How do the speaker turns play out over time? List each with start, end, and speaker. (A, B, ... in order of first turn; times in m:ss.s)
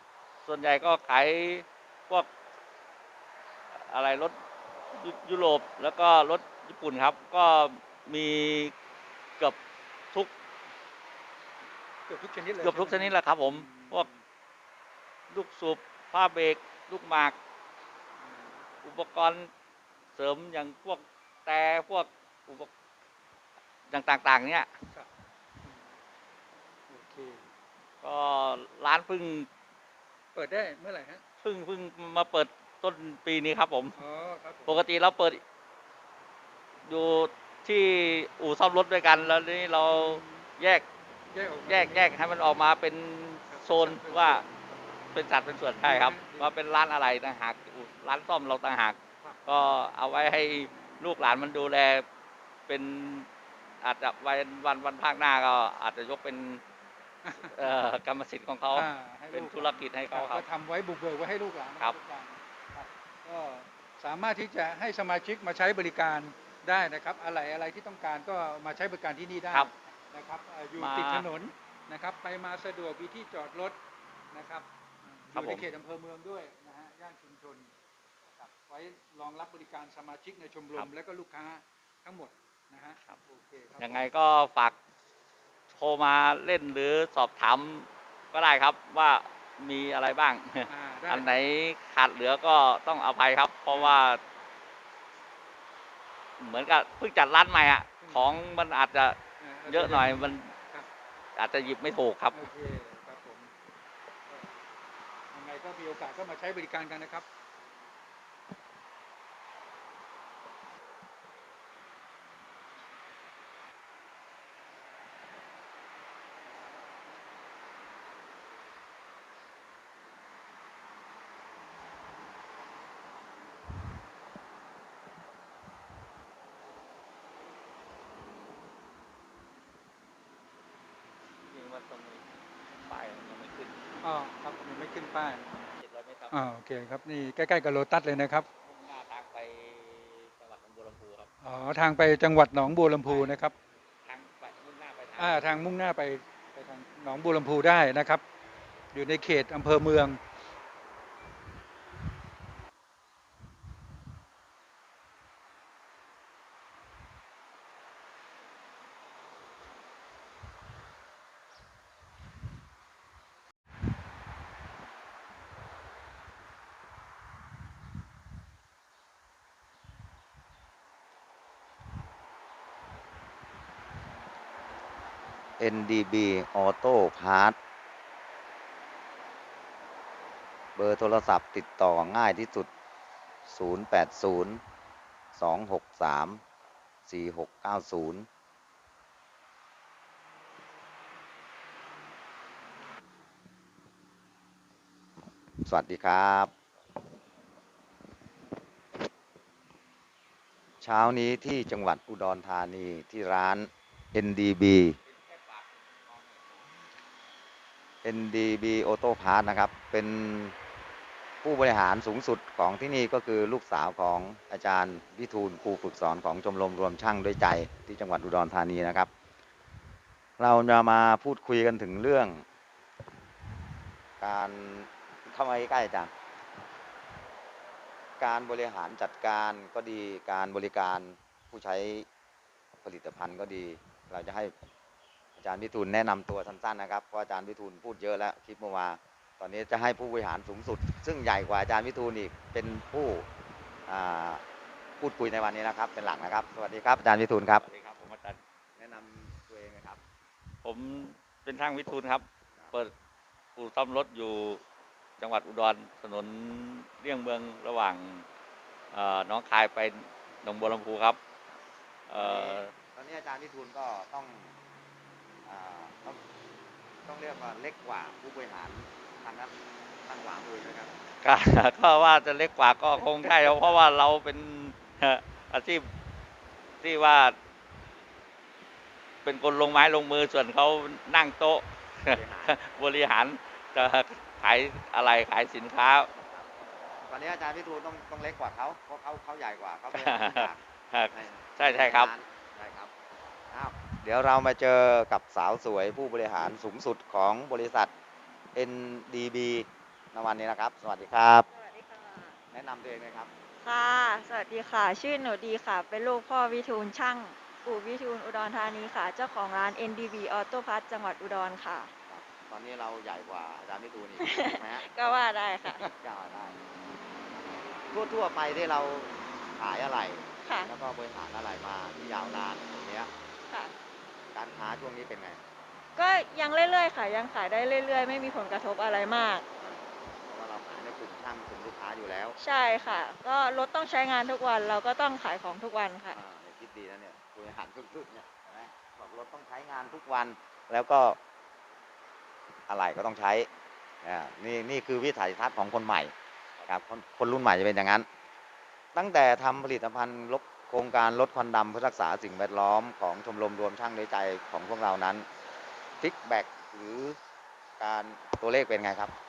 0:00.4-0:02.3 A
0:03.8-0:04.4 A
0:04.9-0:08.7 A
0:12.1-0:14.2 B
0:12.6-0:14.1 A
0:15.3-0:17.4 A
0:18.2-0:18.6 B
0:18.8-0:19.5 A
0:20.2-0:22.7 A
0:23.9-0:24.7 A
0:25.6-0:25.9 B
0:26.9-0:27.5 B
0:28.0-0:29.5 A
0:30.3-0:31.2 B
0:31.4-0:34.0 A
0:34.0-0:34.8 B
0:34.7-0:35.4 A
0:36.9-0:40.9 A
0:39.9-0:40.5 B
0:41.3-0:42.2 B
0:41.7-0:44.4 A
0:43.5-0:44.7 B
0:45.1-0:52.0 A
0:45.8-0:46.5 B
0:52.7-0:53.3 A
0:53.8-0:56.6 A
0:57.2-0:57.7 B
0:57.4-1:00.5 A
0:58.7-1:13.8 B
1:10.8-1:11.3 A
1:14.3-1:17.7 B
1:15.3-1:15.7 A
1:18.4-1:24.1 B
1:23.8-1:24.8 A
1:25.8-1:34.2 A
1:30.7-1:31.4 B
1:33.7-1:34.0 B
1:36.4-1:39.2 A
1:38.0-1:38.4 B
1:39.4-1:40.9 B
1:39.7-1:40.5 A
1:41.4-1:42.4 A
1:42.3-1:43.5 B
1:44.3-1:44.6 B
1:45.3-1:47.3 B
2:11.5-2:12.2 A
2:12.9-2:13.8 A
2:14.0-2:15.5 B
2:15.7-2:16.4 A
2:16.3-2:18.5 B
2:18.6-2:21.3 A
2:21.4-2:23.5 B
2:23.0-2:23.4 A
2:24.0-2:25.5 A
2:25.2-2:28.2 B
2:28.9-2:30.2 B
2:55.6-2:57.6 C
3:00.8-3:02.7 C
3:03.5-3:04.6 C
3:05.4-3:06.4 C
3:07.1-3:08.3 C
3:15.6-3:16.5 C
3:20.8-3:25.0 C
3:25.0-3:26.7 A
3:28.0-3:30.6 C
3:31.4-3:39.1 C
3:40.4-3:42.4 C
3:44.2-3:46.1 C
3:48.2-3:52.1 C
3:52.8-3:54.5 C
3:55.4-4:03.3 C
4:03.9-4:04.4 C
4:05.0-4:07.6 C
4:07.5-4:08.4 A
4:08.8-4:10.0 C
4:10.6-4:12.9 A
4:13.6-4:14.6 A
4:15.2-4:18.3 A
4:18.9-4:21.2 A
4:22.1-4:22.7 A
4:22.1-4:24.6 C
4:25.4-4:26.2 C
4:27.0-4:29.5 C
4:30.0-4:31.0 C
4:31.2-4:35.9 A
4:33.0-4:33.6 C
4:36.8-4:37.4 A
4:39.2-4:46.1 A
4:42.1-4:42.6 C
4:46.2-4:46.5 C
4:47.0-4:52.9 C
4:49.9-4:52.1 A
4:53.5-4:57.9 C
4:58.6-5:01.5 C
5:01.5-5:02.4 D
5:02.5-5:03.3 C
5:03.6-5:11.9 D
5:12.1-5:16.6 C
5:14.2-5:15.8 D
5:17.9-5:23.1 C
5:20.4-5:20.7 D
5:23.5-5:23.7 D
5:24.3-5:25.4 C
5:26.0-5:29.4 D
5:29.6-5:32.4 C
5:32.4-5:36.2 D
5:36.1-5:41.2 C
5:42.7-5:43.5 C
5:44.0-5:46.1 C
5:46.6-5:48.1 C
5:48.9-5:55.3 C
5:56.0-5:57.2 C
5:57.8-5:59.1 C